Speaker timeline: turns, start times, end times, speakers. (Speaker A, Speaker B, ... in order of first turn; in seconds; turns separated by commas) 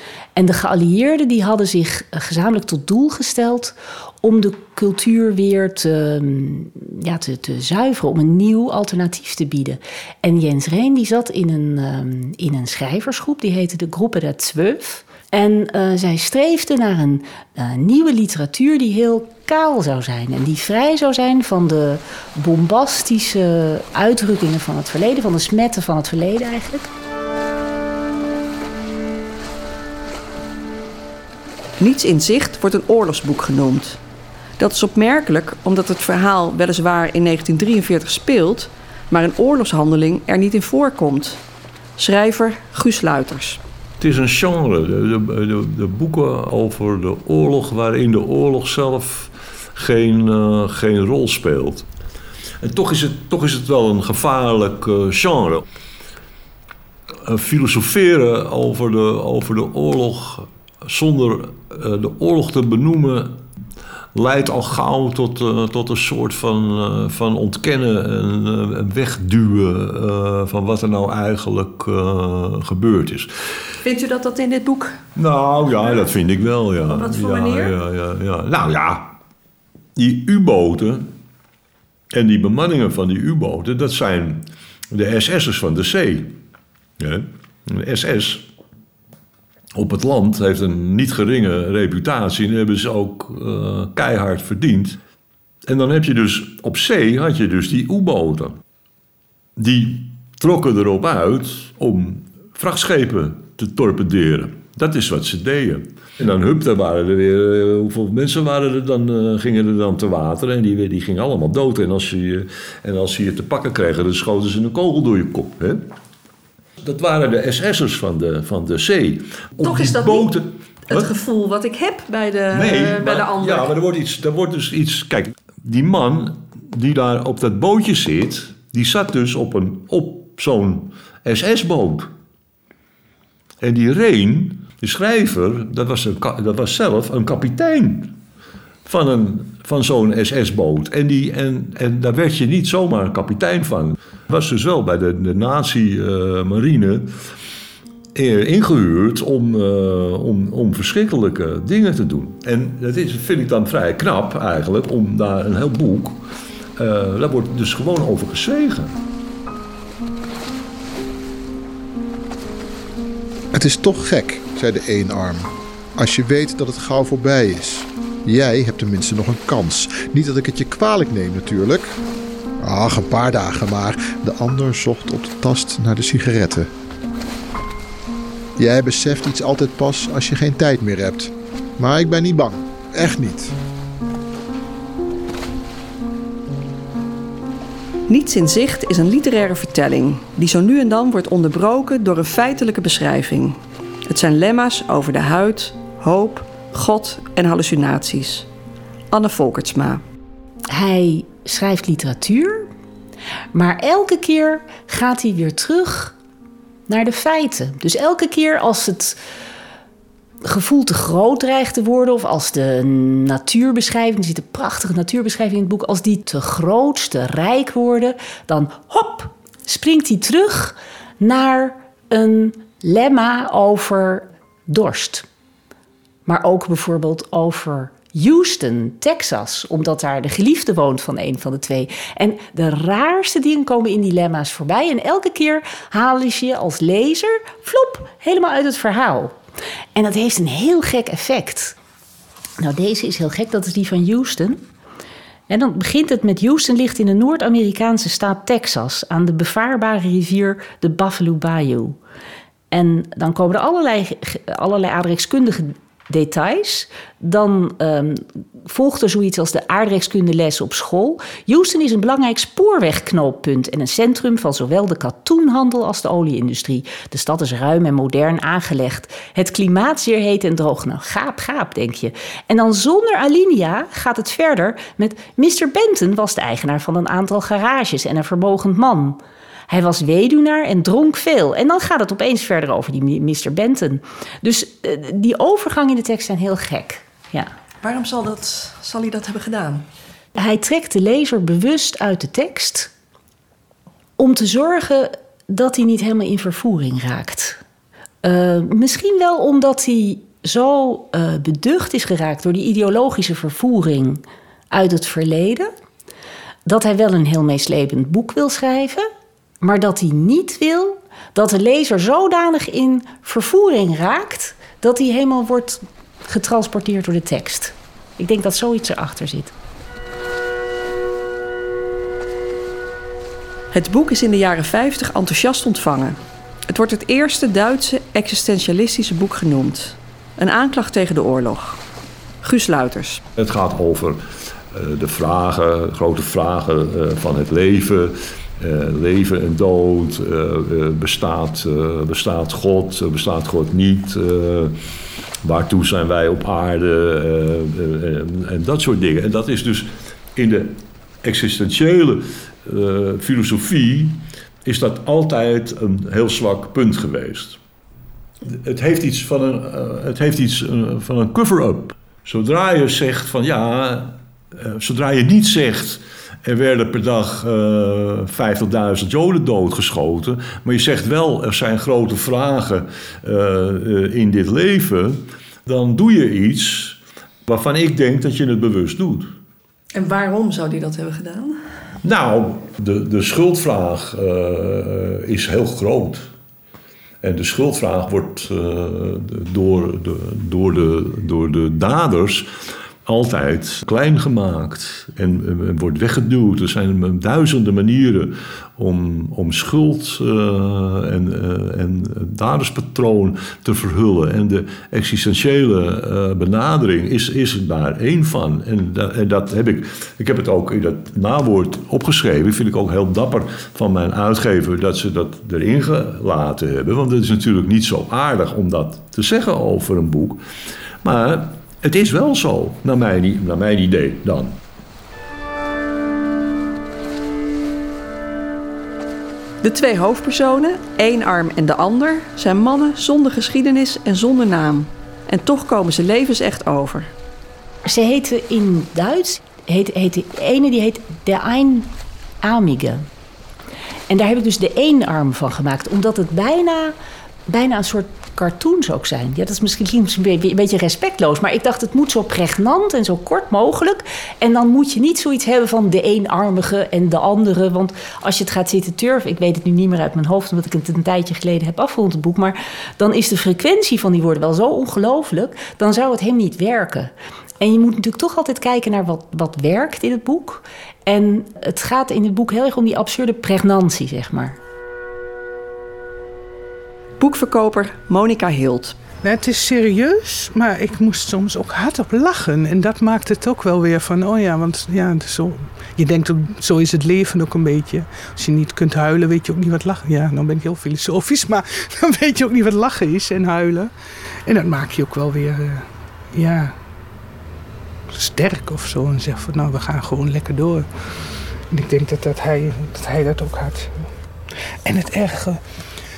Speaker A: 0.3-26.9, Speaker B: 31.8-34.0, Speaker B: 34.6-41.4, Speaker B: 42.0-43.6, Speaker C: 44.0-51.9, Speaker C: 52.6-55.6, Speaker C: 57.2-63.4, Speaker C: 64.1-73.3, Speaker B: 73.8-75.0, Speaker C: 75.1-79.1, Speaker B: 75.8-76.0, Speaker B: 76.8-77.7, Speaker C: 80.0-81.1, Speaker C: 82.1-86.3, Speaker C: 87.0-88.5, Speaker C: 89.8-95.0, Speaker C: 95.7-98.6, Speaker C: 99.6-115.8, Speaker C: 116.8-121.1, Speaker B: 119.6-120.3, Speaker B: 120.9-123.7, Speaker C: 122.5-132.1, Speaker C: 133.6-138.1, Speaker C: 138.8-147.1, Speaker C: 148.1-156.2, Speaker C: 156.8-159.0, Speaker D: 163.5-171.9, Speaker D: 172.6-176.7, Speaker D: 178.6-183.5, Speaker B: 188.1-198.5, Speaker B: 199.1-200.0, Speaker A: 200.7-202.7, Speaker A: 203.5-206.1, Speaker A: 206.9-209.2, Speaker A: 210.4-225.2, Speaker A: 226.2-239.3, Speaker A: 239.9-241.7, Speaker A: 242.6-244.6, Speaker A: 245.5-252.0, Speaker A: 252.7-287.5, Speaker B: 287.8-289.9, Speaker A: 290.4-292.9, Speaker A: 294.2-297.6, Speaker A: 298.2-305.7, Speaker A: 306.6-309.1, Speaker A: 309.6-319.5, Speaker B: 323.7-326.2, Speaker B: 326.7-331.8, Speaker B: 332.4-333.2, Speaker C: 333.4-344.8, Speaker C: 345.4-357.6, Speaker C: 358.4-379.3, Speaker B: 379.9-381.6, Speaker C: 382.0-386.2, Speaker C: 387.2-392.5, Speaker C: 393.1-420.4, Speaker C: 421.0-424.6, Speaker B: 429.6-437.1, Speaker A: 437.9-443.1, Speaker A: 444.1-446.9, Speaker A: 447.5-474.6, Speaker B: 477.2-479.0, Speaker E: 479.2-493.9, Speaker E: 494.4-496.7, Speaker E: 498.1-500.9, Speaker E: 501.7-504.0, Speaker E: 504.8-505.6